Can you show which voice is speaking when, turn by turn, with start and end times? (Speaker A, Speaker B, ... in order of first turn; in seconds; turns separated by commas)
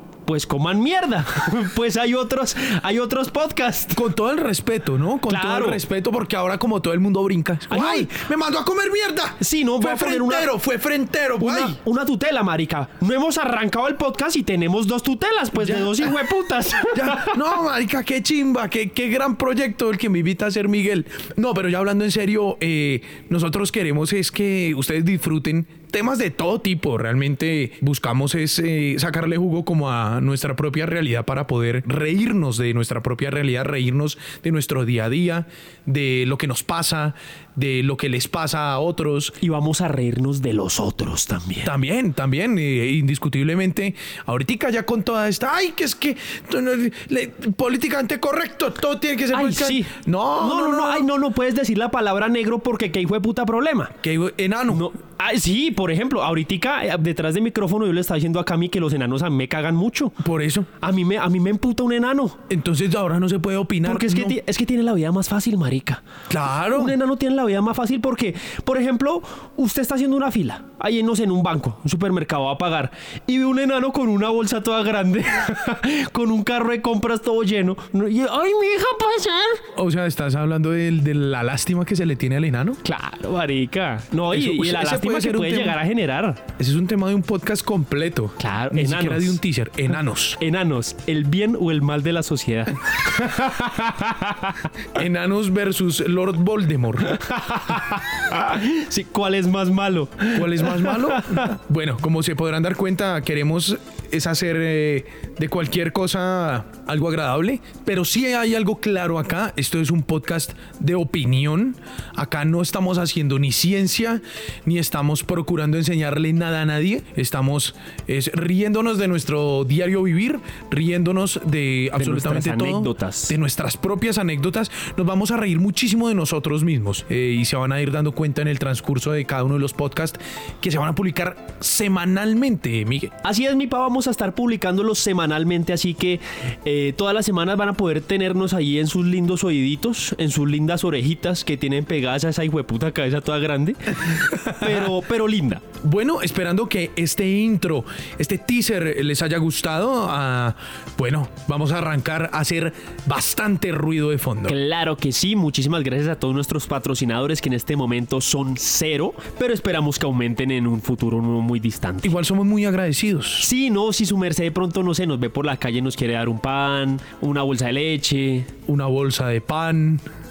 Speaker A: 0.2-4.0, Speaker B: 3.9-11.8, Speaker A: 5.3-5.8, Speaker A: 7.7-8.2, Speaker A: 9.4-10.5, Speaker A: 11.4-17.4, Speaker B: 15.6-16.1, Speaker B: 16.9-39.3, Speaker A: 39.4-41.7, Speaker B: 41.6-51.1, Speaker A: 49.3-53.9, Speaker B: 54.0-54.9, Speaker A: 54.7-60.2, Speaker B: 60.2-60.7, Speaker A: 60.8-62.4, Speaker B: 62.5-64.4, Speaker A: 63.8-66.0, Speaker B: 66.3-67.0, Speaker A: 66.7-79.6, Speaker B: 79.7-82.8, Speaker A: 82.8-86.4, Speaker B: 84.3-85.8, Speaker B: 86.6-90.4, Speaker A: 88.4-89.4, Speaker A: 90.4-94.7, Speaker B: 94.9-97.2, Speaker A: 97.1-101.5, Speaker B: 100.3-133.1, Speaker A: 122.0-123.3, Speaker A: 133.2-145.6, Speaker B: 144.4-144.9, Speaker B: 145.8-154.6, Speaker A: 154.5-162.2, Speaker B: 162.0-163.5, Speaker A: 163.4-168.5, Speaker B: 168.7-170.0